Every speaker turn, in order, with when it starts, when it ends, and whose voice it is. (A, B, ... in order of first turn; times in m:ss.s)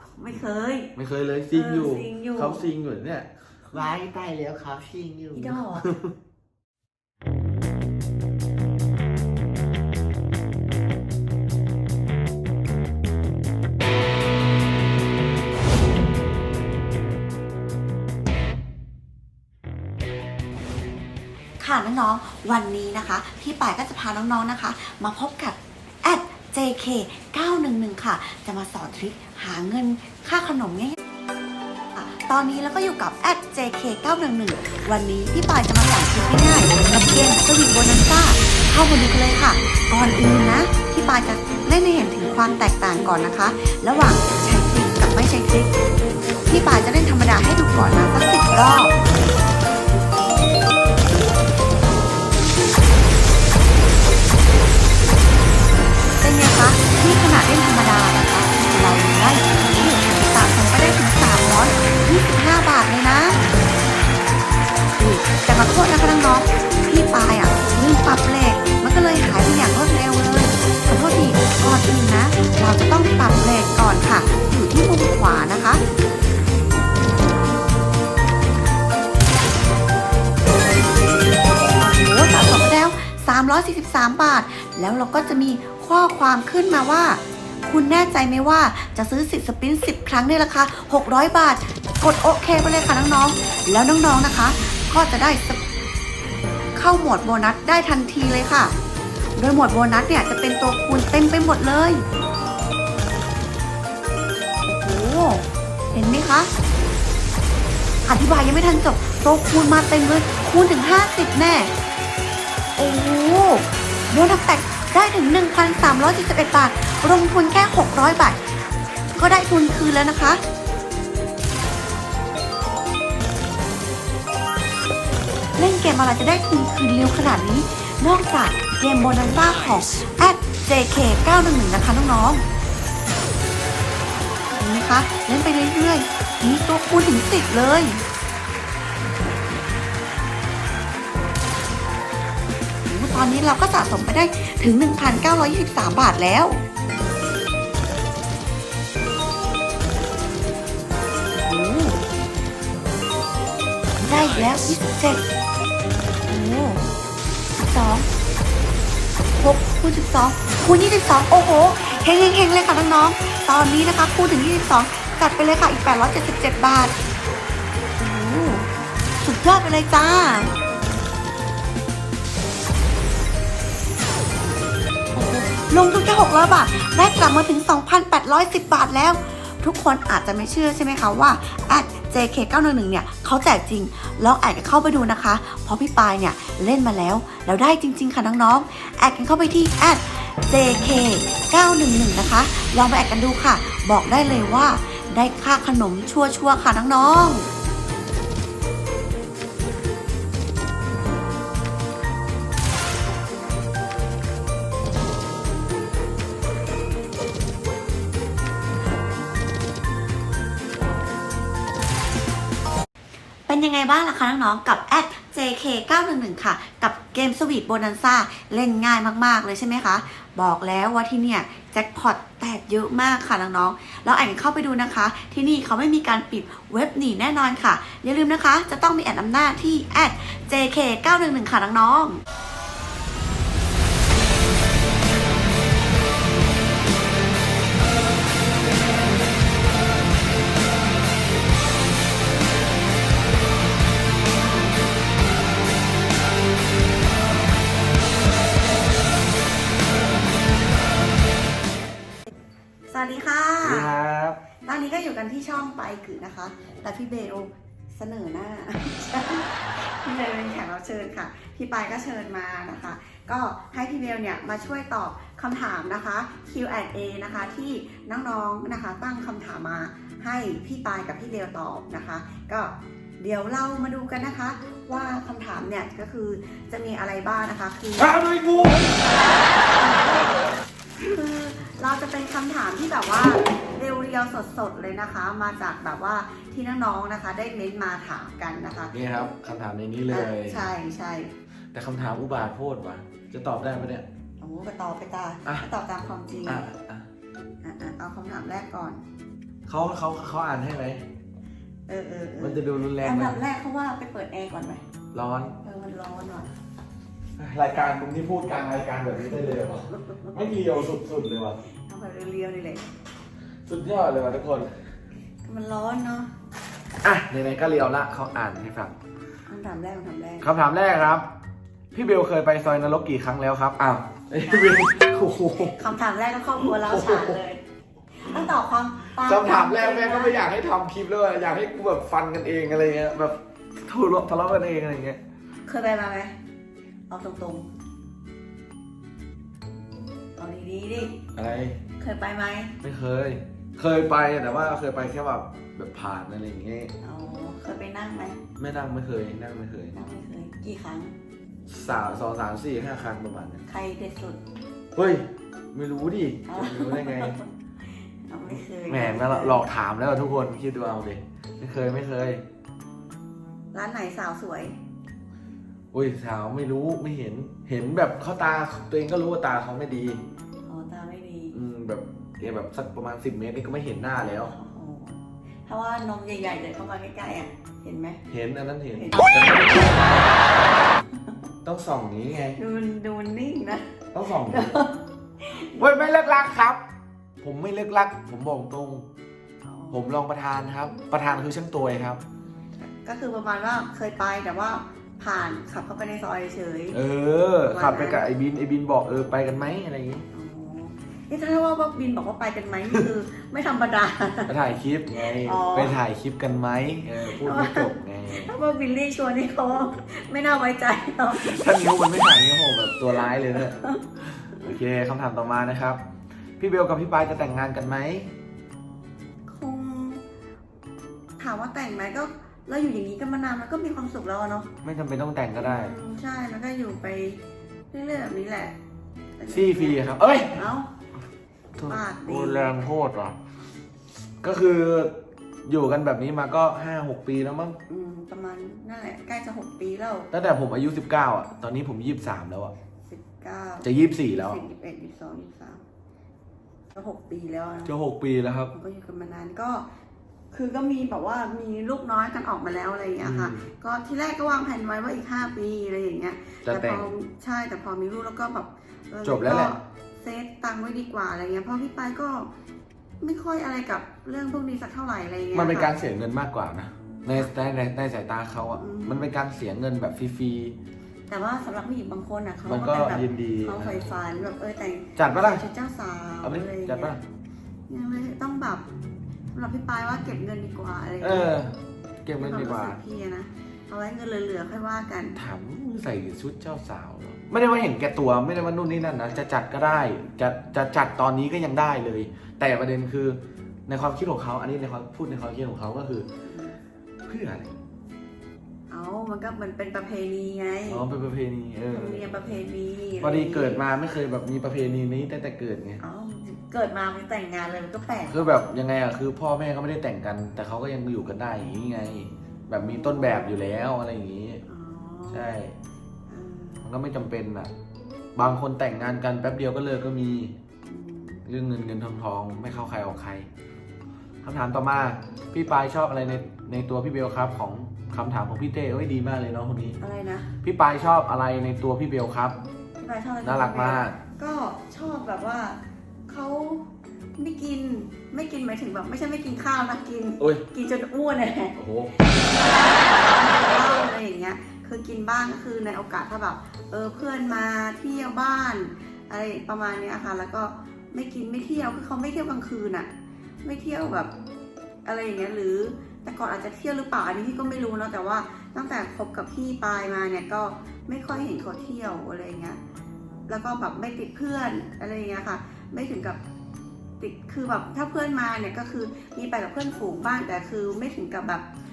0:00.2-0:00.9 A
0:01.0-0:03.3 B
0:01.5-0:02.6 A
0:03.7-0:05.8 C
0:05.3-0:05.9 A
0:21.6-0:31.0 A
0:32.0-0:45.7 A
0:46.4-0:48.9 A
0:56.2-1:03.4 A
1:05.0-1:15.8 A
1:21.8-1:35.6 A
1:36.8-1:38.7 A
1:39.4-1:42.0 A
1:44.6-1:46.5 A
1:48.1-1:51.7 A
1:52.8-1:58.6 A
1:59.1-2:00.4 A
2:05.6-2:12.4 A
2:14.5-2:18.0 A
2:22.9-2:26.6 A
2:31.4-2:32.0 A
2:34.0-2:35.2 A
2:36.2-2:36.9 A
2:37.6-2:38.1 A
2:39.2-2:47.0 A
2:48.0-2:48.7 A
2:49.2-2:50.5 A
2:55.1-3:17.5 A
3:33.5-3:52.2 A
4:12.9-4:14.0 A
4:13.6-4:14.4 B
4:14.6-4:40.5 A
4:38.0-4:38.9 B
4:41.1-4:48.9 A
4:48.9-4:50.7 B
4:50.1-4:51.3 A
4:51.7-4:54.0 B
4:54.4-4:56.6 A
4:56.4-4:57.1 B
4:57.6-4:59.0 A
4:59.7-5:01.0 B
5:01.9-5:04.8 A
5:02.4-5:03.4 B
5:05.1-5:05.6 B
5:05.6-5:06.5 A
5:07.4-5:11.6 B
5:11.8-5:12.9 A
5:13.7-5:14.7 B
5:15.4-5:16.3 A
5:17.0-5:19.0 B
5:19.5-5:20.5 A
5:20.4-5:21.3 B
5:21.9-5:25.8 B
5:24.4-5:25.0 A
5:25.6-5:27.6 A
5:26.8-5:27.4 B
5:28.2-5:30.4 A
5:29.2-5:35.2 B
5:35.6-5:36.4 A
5:37.1-5:37.7 A
5:40.4-5:41.2 A
5:41.3-5:41.8 B
5:42.0-5:42.8 A
5:42.8-5:46.9 B
5:47.0-5:48.4 A
5:48.6-5:50.0 B
5:49.9-5:51.2 A
5:51.7-5:53.6 B
5:53.7-5:54.4 A
5:54.9-5:57.3 B
5:56.4-5:59.7 A
5:58.9-6:02.4 B
6:03.7-6:04.8 A
6:05.9-6:10.2 B
6:10.6-6:11.5 A
6:11.5-6:14.5 B
6:14.5-6:18.2 A
6:18.3-6:20.4 B
6:18.9-6:19.8 A
6:20.9-6:21.3 A
6:21.6-6:22.6 B
6:22.6-6:23.9 A
6:24.1-6:24.8 B
6:24.4-6:26.4 A
6:25.8-6:26.8 B
6:27.4-6:29.1 B
6:29.6-6:30.0 A
6:29.9-6:32.2 B
6:32.8-6:37.0 A
6:36.9-6:40.3 B
6:37.6-6:38.3 A
6:40.3-6:44.6 A
6:44.5-6:48.5 B
6:45.2-6:46.0 A
6:47.2-6:51.8 A
6:51.3-6:56.0 B
6:53.5-6:54.0 A
6:56.6-6:58.3 B
6:59.5-7:00.2 A
7:01.4-7:04.7 A
7:04.8-7:05.9 B
7:05.6-7:08.8 A
7:09.4-7:10.9 A
7:09.5-7:10.6 B
7:11.8-7:13.4 B
7:11.8-7:12.8 A
7:14.4-7:17.8 B
7:17.9-7:20.3 A
7:20.3-7:22.7 B
7:23.0-7:25.8 A
7:23.8-7:24.6 B
7:26.9-7:27.9 A
7:27.8-7:28.7 B
7:28.7-7:29.9 A
7:30.5-7:42.5 A
7:33.2-7:33.6 B
7:36.6-7:37.1 B
7:39.2-7:39.8 B
7:43.2-7:45.9 A
7:45.5-7:50.8 B
7:48.7-7:49.2 A
7:51.3-7:57.2 A
7:52.6-7:54.0 B
7:55.2-7:55.6 B
7:56.4-7:57.2 B
7:57.9-7:58.8 A
7:59.5-8:01.5 A
8:01.2-8:03.0 B
8:02.4-8:05.4 A
8:05.4-8:16.2 B
8:16.4-8:16.8 A
8:17.2-8:17.7 B
8:18.9-8:21.0 A
8:20.9-8:22.4 B
8:21.9-8:23.8 A
8:23.2-8:26.0 B
8:26.0-8:28.6 A
8:28.3-8:34.6 B
8:32.7-8:33.7 A
8:34.6-8:35.6 A
8:35.3-8:35.8 B
8:36.3-8:36.9 A
8:36.8-8:37.7 B
8:38.4-8:40.6 B
8:40.8-8:41.4 A
8:41.4-8:43.5 B
8:44.4-8:50.0 B
8:50.0-8:50.5 A
8:50.6-8:52.6 B
8:53.0-9:13.1 A
8:53.4-8:54.2 B
9:00.4-9:00.6 B
9:01.8-9:02.3 B
9:13.6-9:14.3 A
9:15.0-9:22.8 A
9:23.5-9:26.4 A
9:27.2-9:31.7 A